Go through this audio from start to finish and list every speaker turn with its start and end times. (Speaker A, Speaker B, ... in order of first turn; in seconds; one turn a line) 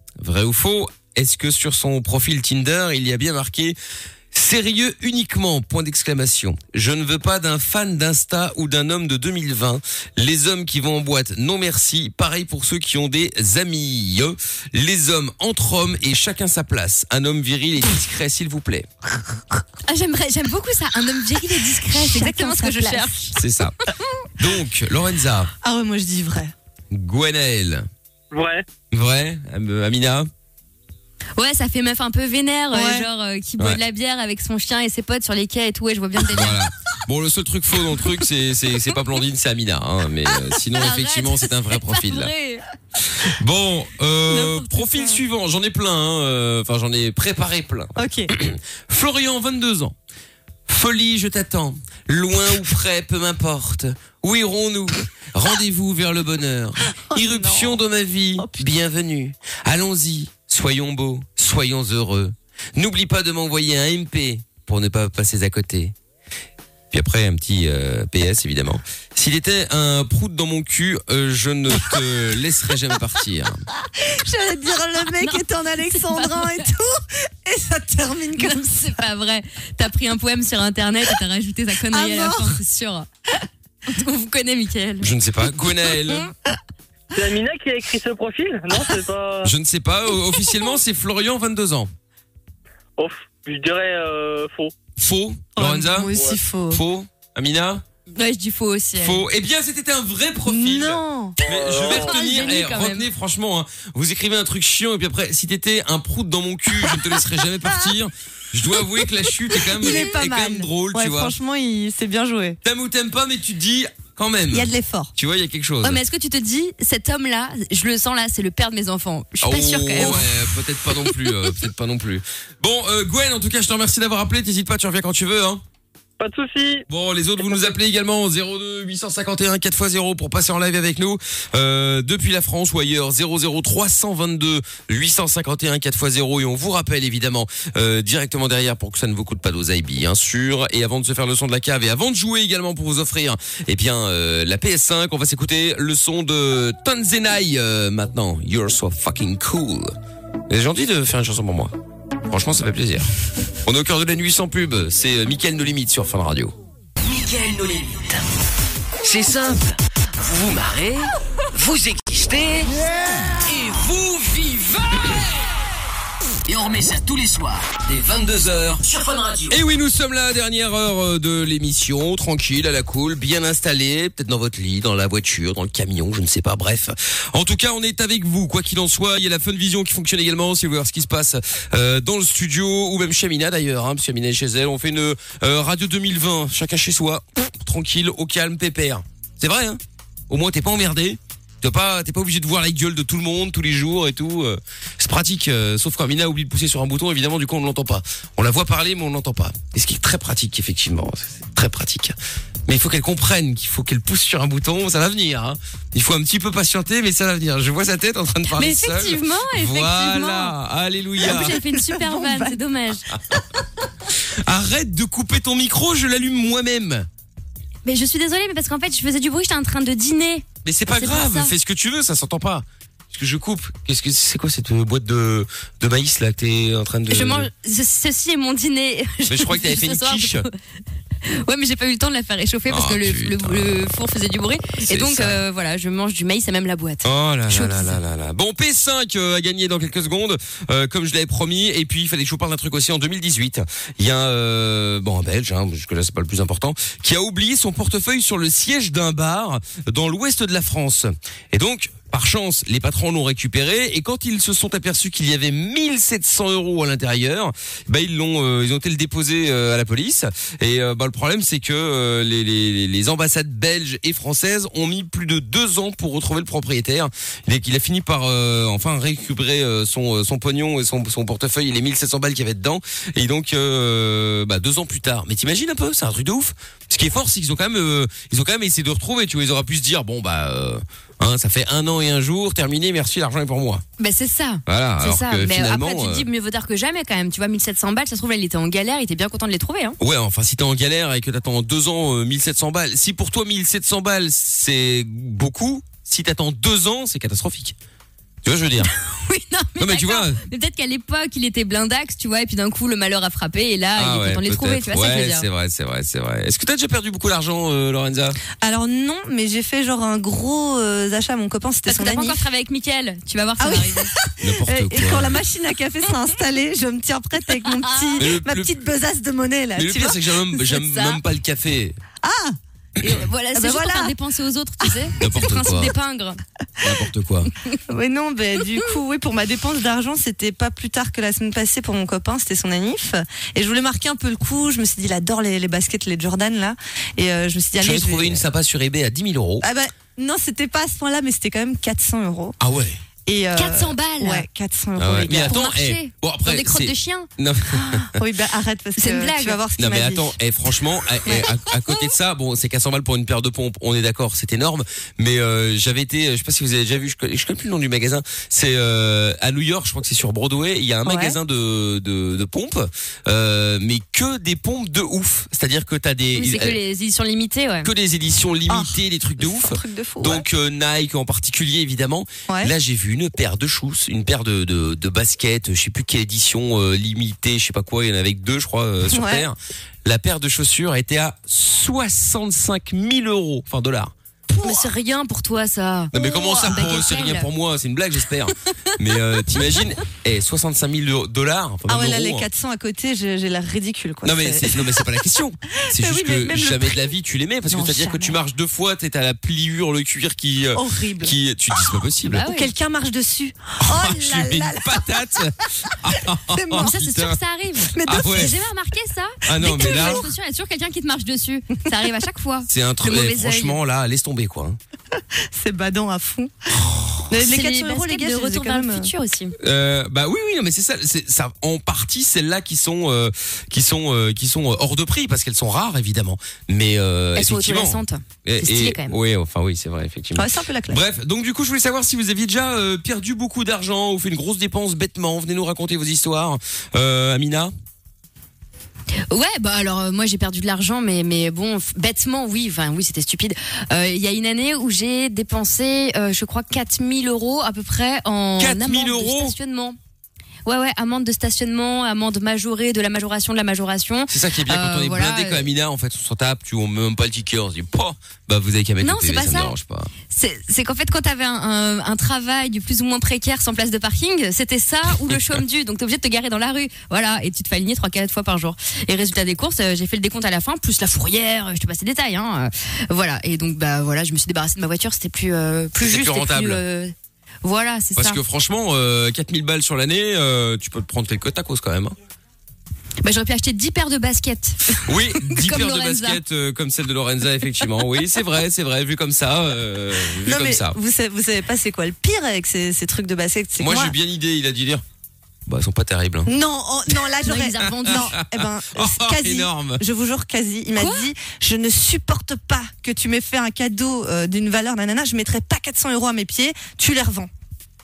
Speaker A: 0.2-3.8
Speaker A: 4.3-18.9
Speaker B: 19.9-23.4
Speaker C: 21.5-23.3
Speaker A: 23.4-23.8
Speaker C: 23.9-24.3
Speaker A: 24.4-25.5
Speaker C: 25.6-26.5
Speaker A: 26.9-27.9
Speaker D: 28.3-28.6
Speaker A: 28.9-30.3
Speaker B: 31.4-36.6
Speaker C: 32.7-33.1
Speaker A: 36.2-42.3
Speaker B: 40.7-42.7
Speaker A: 43.0-50.0
Speaker B: 44.3-45.2
Speaker C: 48.0-48.3
Speaker A: 50.7-66.0
Speaker C: 57.1-57.8
Speaker C: 58.4-58.6
Speaker A: 66.9-73.6
Speaker C: 73.9-78.9
Speaker B: 75.2-76.7
Speaker B: 78.4-83.1
Speaker C: 81.9-82.6
Speaker B: 83.9-85.1
Speaker A: 85.0-86.3
Speaker D: 87.1-89.5
Speaker A: 89.4-91.9
Speaker D: 93.0-94.7
Speaker A: 95.0-96.1
Speaker C: 95.6-96.8
Speaker D: 96.1-96.4
Speaker A: 96.7-97.8
Speaker B: 98.2-99.2
Speaker A: 99.0-111.3
Speaker C: 100.5-101.4
Speaker D: 101.4-102.2
Speaker B: 101.8-103.1
Speaker C: 109.5-112.6
Speaker A: 112.6-116.0
Speaker C: 114.5-115.1
Speaker B: 115.8-120.3
Speaker A: 119.4-125.6
Speaker D: 126.2-126.8
Speaker A: 126.9-149.9
Speaker A: 150.5-151.7
Speaker A: 152.3-153.1
Speaker A: 153.7-156.5
Speaker E: 157.0-158.2
Speaker E: 159.0-162.8
Speaker E: 163.3-165.3
Speaker E: 166.5-169.6
Speaker A: 169.5-202.2
Speaker A: 202.7-211.6
Speaker B: 208.5-210.6
Speaker C: 211.2-212.6
Speaker B: 211.2-213.1
Speaker A: 213.1-213.4
Speaker C: 213.3-213.6
Speaker A: 214.3-217.1
Speaker B: 217.8-221.5
Speaker A: 220.6-227.5
Speaker B: 227.1-230.5
Speaker A: 229.3-230.5
Speaker B: 231.3-238.0
Speaker A: 232.7-233.8
Speaker A: 234.8-235.4
Speaker A: 237.0-283.8
Speaker B: 284.0-290.0
Speaker A: 284.7-286.3
Speaker A: 290.0-297.8
Speaker A: 298.4-298.9
Speaker B: 298.8-305.5
Speaker A: 299.8-300.4
Speaker A: 304.0-308.4
Speaker C: 308.6-312.4
Speaker B: 311.9-314.1
Speaker C: 313.6-320.2
Speaker A: 314.4-315.4
Speaker B: 317.6-318.2
Speaker A: 318.2-318.7
Speaker A: 319.8-322.0
Speaker B: 320.7-321.2
Speaker C: 322.2-322.6
Speaker B: 323.0-326.4
Speaker C: 323.6-324.1
Speaker A: 325.2-325.9
Speaker A: 326.8-327.5
Speaker C: 327.9-338.4
Speaker A: 337.8-339.7
Speaker C: 339.6-342.6
Speaker A: 342.6-343.0
Speaker C: 343.3-345.6
Speaker B: 343.5-344.5
Speaker A: 345.0-348.2
Speaker B: 345.3-347.3
Speaker C: 347.7-350.4
Speaker B: 349.0-349.6
Speaker A: 349.8-366.8
Speaker C: 351.3-351.5
Speaker C: 361.1-361.3
Speaker B: 366.4-367.9
Speaker A: 367.8-384.1
Speaker C: 368.7-370.4
Speaker C: 379.1-379.5
Speaker C: 384.5-384.9
Speaker B: 384.6-387.5
Speaker A: 386.1-392.5
Speaker C: 386.1-387.1
Speaker C: 391.9-395.1
Speaker A: 394.2-402.4
Speaker C: 395.9-397.1
Speaker C: 397.7-398.4
Speaker C: 400.7-401.4
Speaker B: 402.3-402.7
Speaker C: 402.4-405.3
Speaker A: 403.8-407.4
Speaker C: 405.9-407.0
Speaker B: 406.7-413.8
Speaker C: 407.9-408.6
Speaker A: 408.0-408.6
Speaker A: 409.4-410.3
Speaker C: 409.6-410.3
Speaker A: 412.7-414.8
Speaker C: 415.1-416.5
Speaker A: 416.7-417.3
Speaker C: 417.3-419.1
Speaker B: 417.4-419.6
Speaker A: 419.6-437.7
Speaker B: 427.4-429.2
Speaker C: 430.4-431.0
Speaker B: 439.3-450.0
Speaker A: 448.6-449.6
Speaker B: 450.7-455.7
Speaker A: 454.3-460.1
Speaker B: 459.0-459.8
Speaker B: 460.3-478.4
Speaker A: 465.3-465.6
Speaker A: 476.0-476.8
Speaker A: 478.2-482.2
Speaker B: 483.2-486.4
Speaker A: 485.0-491.0
Speaker C: 490.4-494.1
Speaker A: 493.8-495.0
Speaker A: 495.7-496.5
Speaker C: 496.5-507.5
Speaker B: 497.4-498.4
Speaker A: 498.1-500.0
Speaker B: 501.0-501.3